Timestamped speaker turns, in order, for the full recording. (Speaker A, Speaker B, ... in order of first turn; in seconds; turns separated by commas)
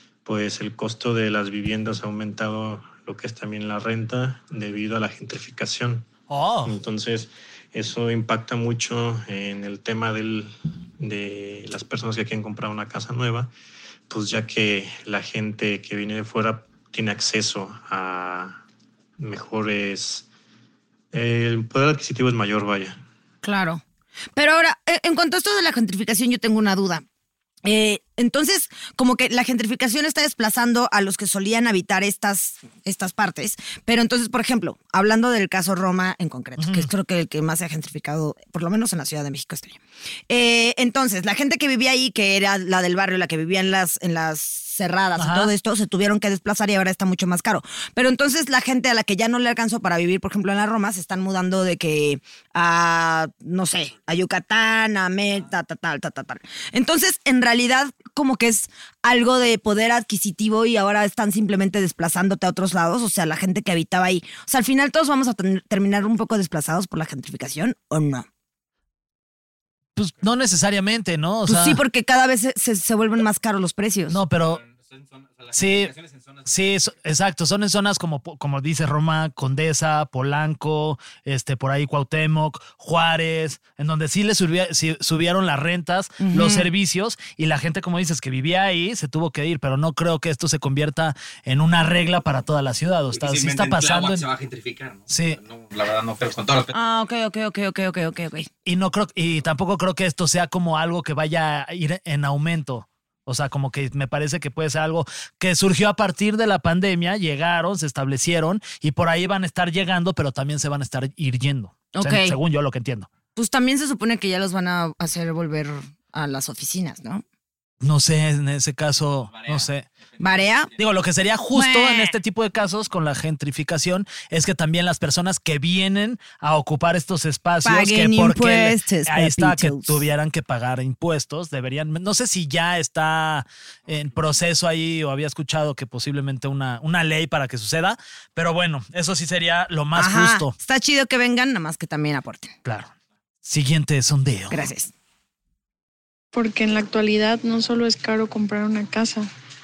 Speaker A: 0.2-6.1, Speaker B: 6.3-6.7, Speaker A: 6.7-13.5, Speaker A: 14.1-18.6, Speaker A: 19.2-20.3, Speaker A: 21.1-23.0, Speaker C: 23.4-23.8, Speaker C: 24.4-27.0, Speaker C: 27.6-68.3, Speaker B: 36.6-36.9, Speaker B: 45.2-45.5, Speaker B: 70.0-71.8, Speaker C: 71.5-74.2, Speaker B: 74.1-74.6, Speaker D: 74.4-77.0, Speaker B: 75.5-75.9, Speaker B: 76.5-94.3, Speaker C: 86.2-86.7, Speaker D: 93.1-96.7, Speaker B: 95.1-95.4, Speaker C: 96.7-98.5, Speaker B: 98.7-113.1, Speaker C: 111.9-112.4, Speaker C: 113.4-117.2, Speaker B: 117.8-119.8, Speaker D: 119.2-120.9, Speaker C: 120.2-120.7, Speaker B: 120.8-140.5, Speaker C: 121.5-122.2, Speaker C: 127.6-130.0, Speaker C: 139.9-142.5, Speaker B: 142.7-142.9, Speaker B: 143.4-144.7, Speaker C: 144.5-144.9, Speaker E: 146.3-149.3